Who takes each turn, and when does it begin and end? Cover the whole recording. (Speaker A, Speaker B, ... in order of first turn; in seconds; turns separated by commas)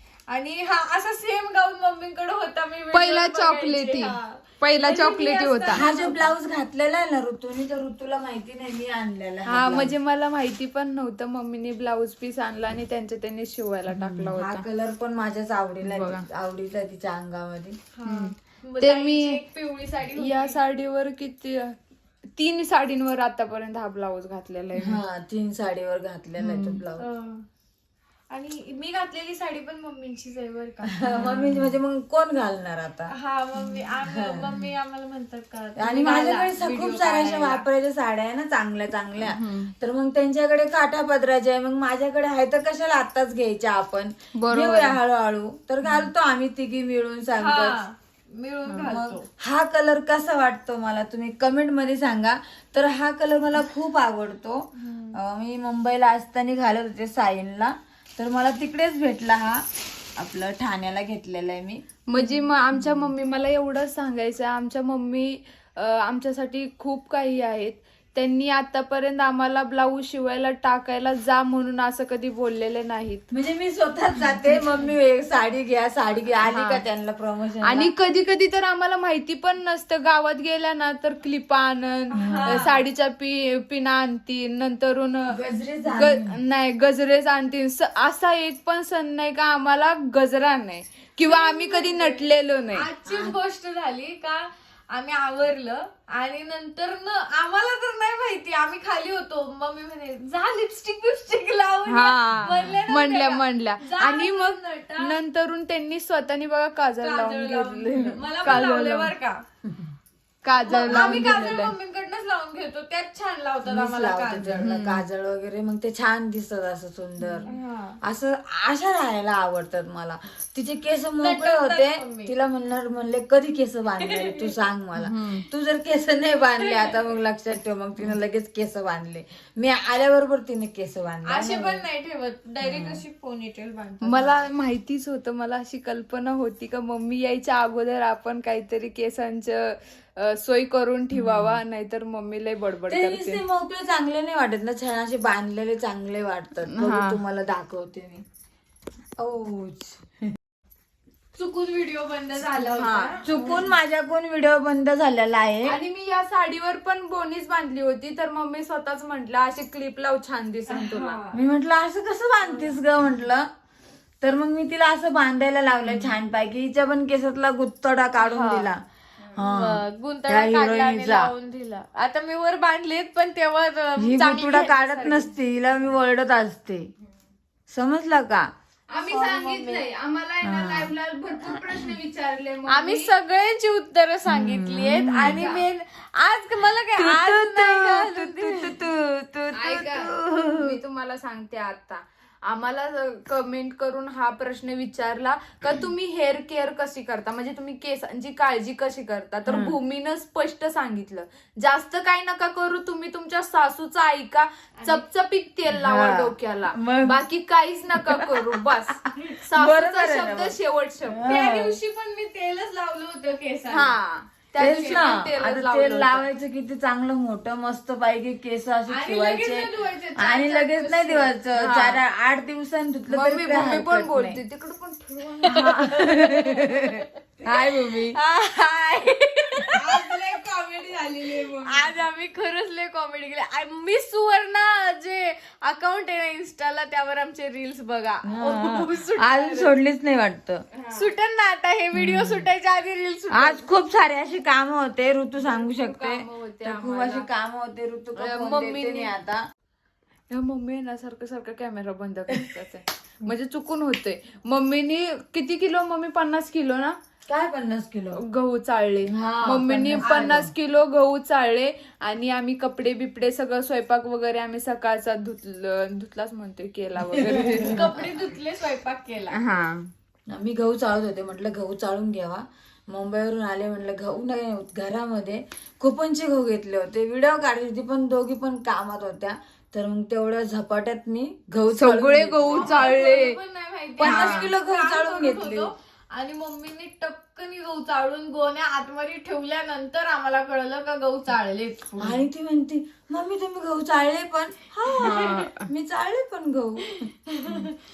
Speaker A: 0.3-6.3, Speaker B: 2.9-5.8, Speaker C: 5.7-9.9, Speaker B: 9.5-14.6, Speaker C: 13.9-17.8, Speaker B: 15.8-16.2, Speaker A: 17.9-20.6, Speaker B: 18.1-19.4, Speaker B: 20.2-21.8, Speaker B: 22.4-25.0, Speaker C: 24.8-27.1, Speaker B: 26.4-26.8, Speaker A: 27.0-27.4, Speaker A: 28.3-31.6, Speaker C: 30.9-33.1, Speaker A: 33.1-37.6, Speaker C: 34.0-34.6, Speaker C: 35.8-47.8, Speaker B: 39.2-39.7, Speaker B: 44.4-45.0, Speaker A: 47.4-49.3, Speaker C: 48.8-59.7, Speaker A: 54.8-55.2, Speaker C: 60.2-61.8, Speaker B: 62.1-73.2, Speaker C: 62.8-63.1, Speaker C: 73.3-77.9, Speaker B: 76.5-76.8, Speaker B: 77.7-92.9, Speaker A: 82.1-82.8, Speaker C: 82.2-82.7, Speaker C: 85.3-86.4, Speaker A: 91.2-105.2, Speaker C: 93.1-93.4, Speaker B: 101.9-109.1, Speaker C: 102.3-102.8, Speaker A: 107.0-109.4, Speaker B: 110.4-111.8, Speaker A: 110.7-114.7, Speaker C: 110.8-111.6, Speaker C: 113.7-131.8, Speaker B: 114.6-115.0, Speaker A: 117.5-118.0, Speaker A: 121.2-122.3, Speaker A: 124.0-124.6, Speaker B: 125.0-125.5, Speaker A: 126.6-127.0, Speaker A: 131.3-134.4, Speaker C: 132.6-133.0, Speaker B: 134.0-143.4, Speaker C: 141.1-141.6, Speaker C: 142.9-148.2, Speaker B: 146.7-147.2, Speaker C: 149.2-150.2, Speaker A: 151.3-153.7, Speaker B: 152.6-153.2, Speaker C: 153.2-155.8, Speaker B: 155.7-161.2, Speaker A: 160.7-161.4, Speaker C: 161.3-163.5, Speaker A: 162.5-162.8, Speaker C: 164.2-168.8, Speaker A: 168.2-168.7, Speaker C: 169.4-171.3, Speaker A: 169.4-175.3, Speaker C: 174.0-176.9, Speaker C: 177.7-178.5, Speaker B: 178.9-183.1, Speaker A: 179.0-179.8, Speaker C: 180.4-180.9, Speaker A: 182.7-188.8, Speaker C: 184.3-185.5, Speaker B: 185.1-185.6, Speaker C: 187.0-190.8, Speaker B: 189.6-211.3, Speaker C: 199.5-199.8, Speaker C: 205.7-207.2, Speaker C: 207.9-210.6, Speaker C: 211.1-211.8, Speaker A: 211.2-214.0, Speaker B: 213.7-216.3, Speaker C: 214.6-224.4, Speaker A: 214.6-215.1, Speaker A: 218.9-221.4, Speaker B: 221.6-222.0, Speaker B: 223.1-225.7, Speaker C: 225.4-228.2, Speaker A: 225.5-230.2, Speaker C: 229.7-231.6, Speaker B: 229.8-231.9, Speaker A: 231.6-239.8, Speaker C: 238.2-240.7, Speaker B: 240.7-241.1, Speaker A: 240.9-243.7, Speaker C: 242.0-242.3, Speaker C: 243.3-249.4, Speaker B: 245.4-247.3, Speaker B: 248.2-249.1, Speaker B: 250.3-257.0, Speaker C: 257.3-258.2, Speaker B: 258.1-268.1, Speaker C: 259.1-260.5, Speaker A: 260.0-260.4, Speaker C: 267.1-267.8, Speaker A: 267.6-269.4, Speaker B: 269.3-269.9, Speaker C: 270.3-283.0, Speaker B: 281.7-283.4, Speaker A: 282.4-292.3, Speaker C: 284.0-285.7, Speaker B: 284.0-284.5, Speaker C: 292.0-297.1, Speaker A: 294.9-295.4, Speaker B: 295.0-295.7, Speaker A: 296.9-297.7